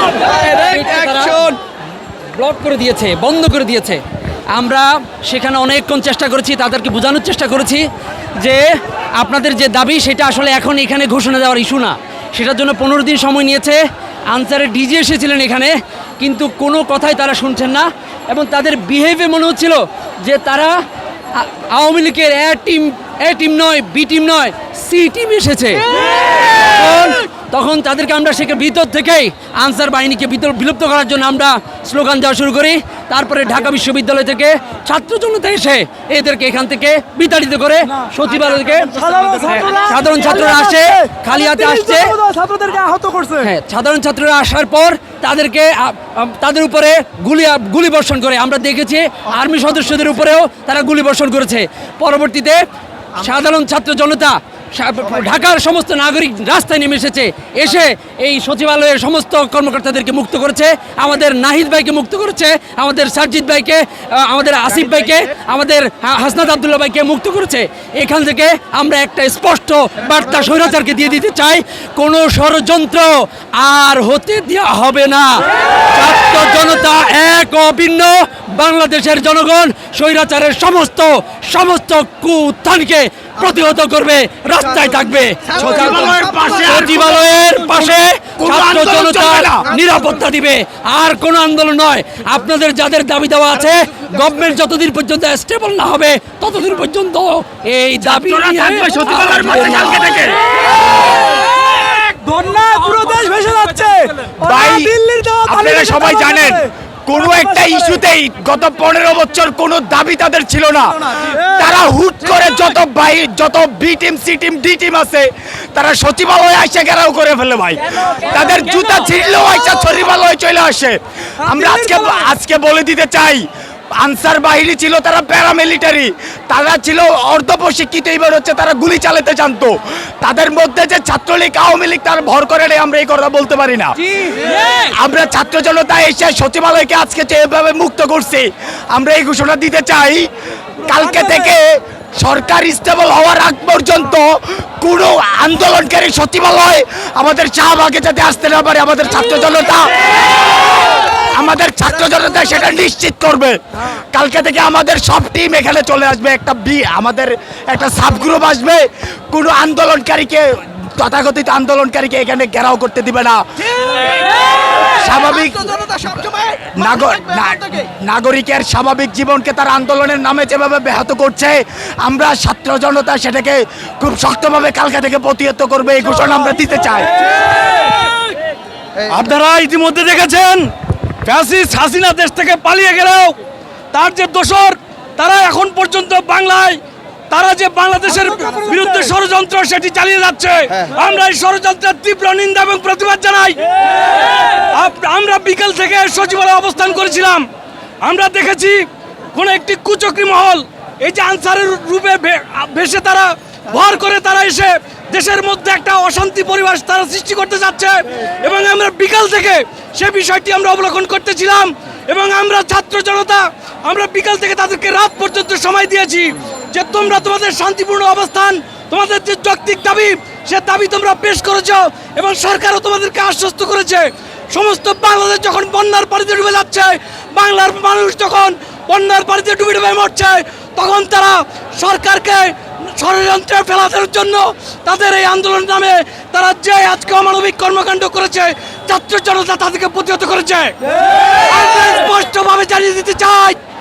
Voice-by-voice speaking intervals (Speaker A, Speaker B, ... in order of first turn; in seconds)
Speaker A: 0.2-1.5, 2.3-4.0, 4.5-8.7, 9.2-20.8, 21.4-25.9, 26.7-42.1, 43.4-52.6, 53.1-100.2
Speaker B: 0.3-1.6, 39.0-43.5, 101.7-106.7, 107.3-107.8
Speaker C: 85.6-89.7, 98.0-100.4, 104.4-123.5, 124.0-140.3, 140.8-149.9, 151.2-153.6, 154.1-163.4, 164.8-177.1
Speaker D: 179.1-180.7, 181.2-183.4, 183.9-186.8, 187.3-197.5, 198.0-243.6